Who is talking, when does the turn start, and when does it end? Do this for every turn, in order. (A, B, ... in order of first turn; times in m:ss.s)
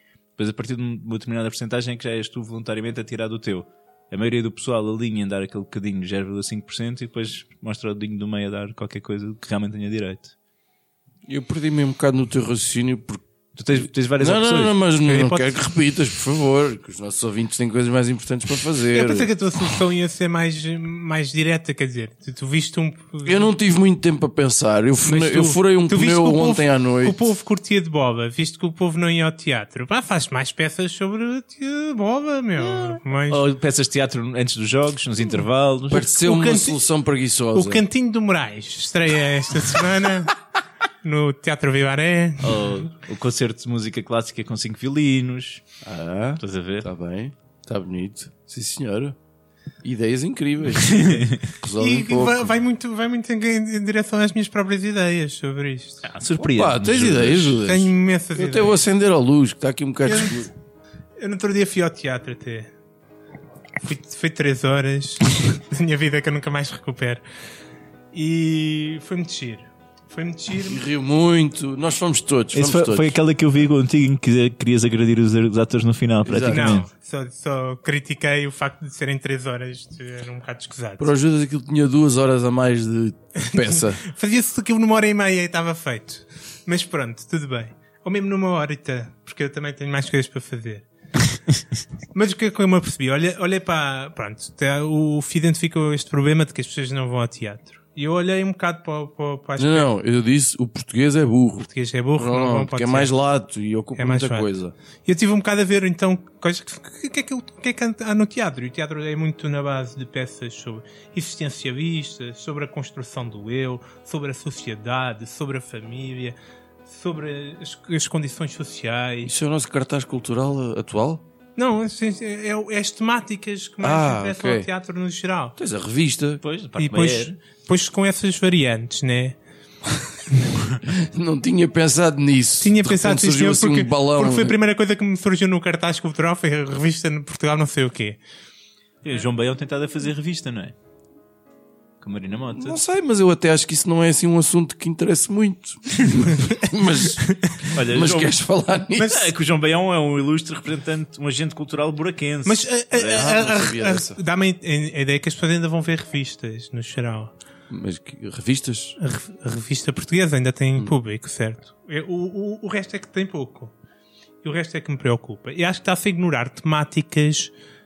0:00.4-0:10.3 A
0:11.3-0:13.2 B
0:13.6-0:14.8 A
0:14.2-0:19.3 B
0:15.1-0:15.5 C
0:18.9-0:23.5 C
0:23.2-0:27.2 B
0:25.0-0:33.4 C
0:33.3-0:36.0 A
0:35.9-0:37.8 B
0:35.9-0:36.8 C
0:37.5-0:40.4 C
0:41.0-0:42.9 C
0:42.4-0:45.6 A
0:45.8-0:49.2 B
0:46.4-0:46.9 A
0:49.8-0:52.6 B
0:50.8-0:51.5 A
0:51.8-0:56.0 C
0:56.0-0:57.6 A
0:56.4-1:00.5 B
0:57.6-0:58.8 C
1:00.1-1:00.4 C
1:01.2-1:02.7 C
1:03.8-1:07.2 C
1:08.1-1:10.8 C
1:10.6-1:13.2 B
1:12.5-1:16.9 A
1:16.2-1:16.8 B
1:16.4-1:21.1 C
1:21.0-1:24.0 B
1:23.5-1:30.9 C
1:32.1-1:39.9 C
1:39.6-1:44.7 B
1:41.7-1:43.1 C
1:44.0-1:44.5 C
1:45.1-1:59.3 C
1:59.2-2:01.2 B
2:01.6-2:05.6 C
2:03.8-2:04.7 B
2:05.6-2:06.4 B
2:06.4-2:07.4 A
2:06.8-2:09.4 C
2:10.8-2:14.6 B
2:12.6-2:18.2 C
2:19.0-2:20.7 A
2:22.0-2:22.8 A
2:22.5-2:29.2 B
2:27.3-2:27.6 C
2:27.7-2:28.4 A
2:29.0-2:29.3 C
2:29.0-2:32.8 A
2:32.4-2:37.3 C
2:33.0-2:34.2 B
2:37.7-2:39.0 B
2:39.0-2:43.7 C
2:44.4-2:47.5 C